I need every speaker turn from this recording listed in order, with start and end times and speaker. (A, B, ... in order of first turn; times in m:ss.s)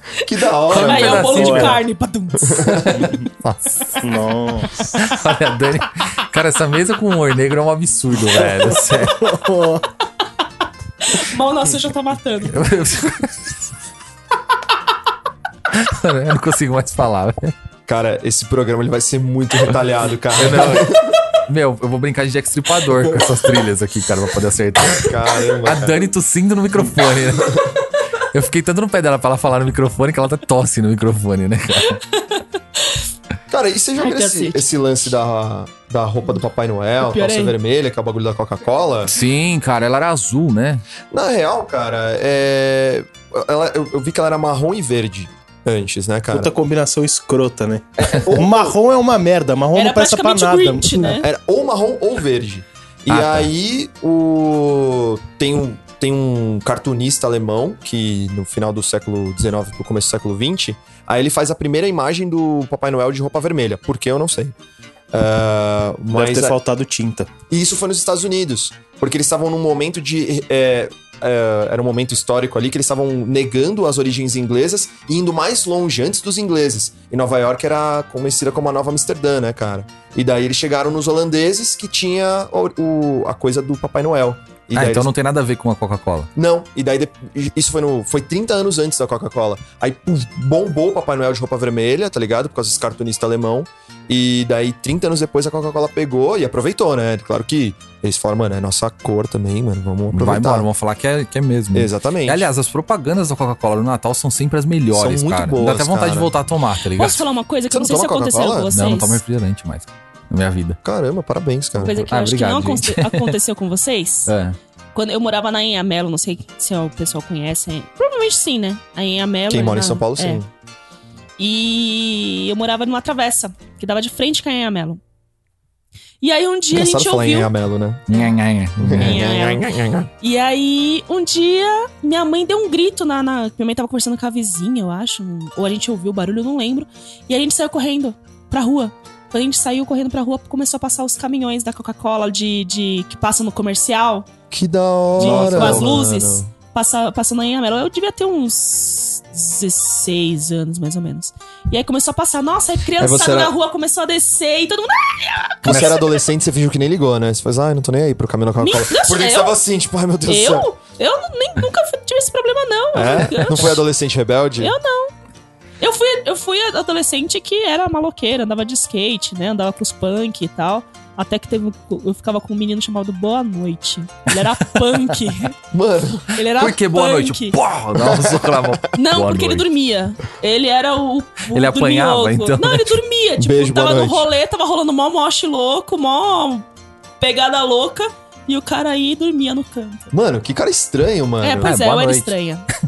0:00.2-0:01.6 A
0:00.7-0:02.8 B
0:00.7-0:01.8 C
0:01.3-0:01.8 D
0:02.4-0:03.0 A
0:02.6-0:04.1 C
0:02.9-0:03.3 D
0:04.0-0:05.0 D
0:05.0-0:09.4 C
0:08.4-0:09.8 D
0:11.0-0:12.6 B
0:12.5-0:13.7 C
0:15.7-0:17.5 C
0:17.9-0:21.1 A
0:20.4-0:32.0 C
0:23.0-0:23.4 A
0:24.8-0:26.0 A
0:27.4-0:27.7 A
0:32.1-0:33.0 B
0:33.5-0:39.1 A
0:34.0-0:34.7 B
0:37.0-0:37.6 B
0:39.1-0:40.8 C
0:41.1-0:46.5 A
0:46.3-0:51.1 D
0:48.0-0:48.8 A
0:49.7-0:51.3 B
0:51.0-1:04.5 A
0:53.1-0:53.5 C
1:05.1-1:06.6 A
1:06.1-1:07.3 D
1:07.5-1:25.1 A
1:24.7-1:26.3 C
1:26.4-1:40.7 A
1:40.1-1:47.2 C
1:41.7-1:42.5 A
1:44.9-1:46.3 A
1:47.0-1:49.2 B
1:47.7-1:48.7 A
1:48.7-1:50.8 C
1:50.8-1:52.0 A
1:51.8-1:54.3 B
1:52.1-1:53.3 C
1:54.3-1:54.6 C
1:54.9-2:00.4 B
1:59.5-2:00.5 A
2:01.4-2:05.0 B
2:06.2-2:07.5 B
2:06.7-2:08.1 A
2:08.1-2:09.2 C
2:08.8-2:10.1 A
2:08.9-2:24.3 B
2:24.5-2:26.5 A
2:25.2-2:25.9 C
2:25.2-2:36.2 B
2:33.0-2:33.5 A
2:35.6-2:40.7 A
2:35.7-2:35.9 C
2:38.6-2:39.6 B
2:40.3-2:43.7 B
2:42.9-2:44.8 A
2:44.6-2:45.1 B
2:45.8-2:55.5 B
2:54.7-2:55.0 C
2:55.7-2:56.3 A
2:56.3-2:57.6 B
2:56.5-2:59.7 C
2:58.0-2:58.7 A
2:58.9-3:06.6 B
3:01.5-3:03.0 C
3:03.4-3:04.3 A
3:07.2-3:10.1 B
3:10.1-3:11.7 A
3:11.4-3:12.7 B
3:11.6-3:12.3 C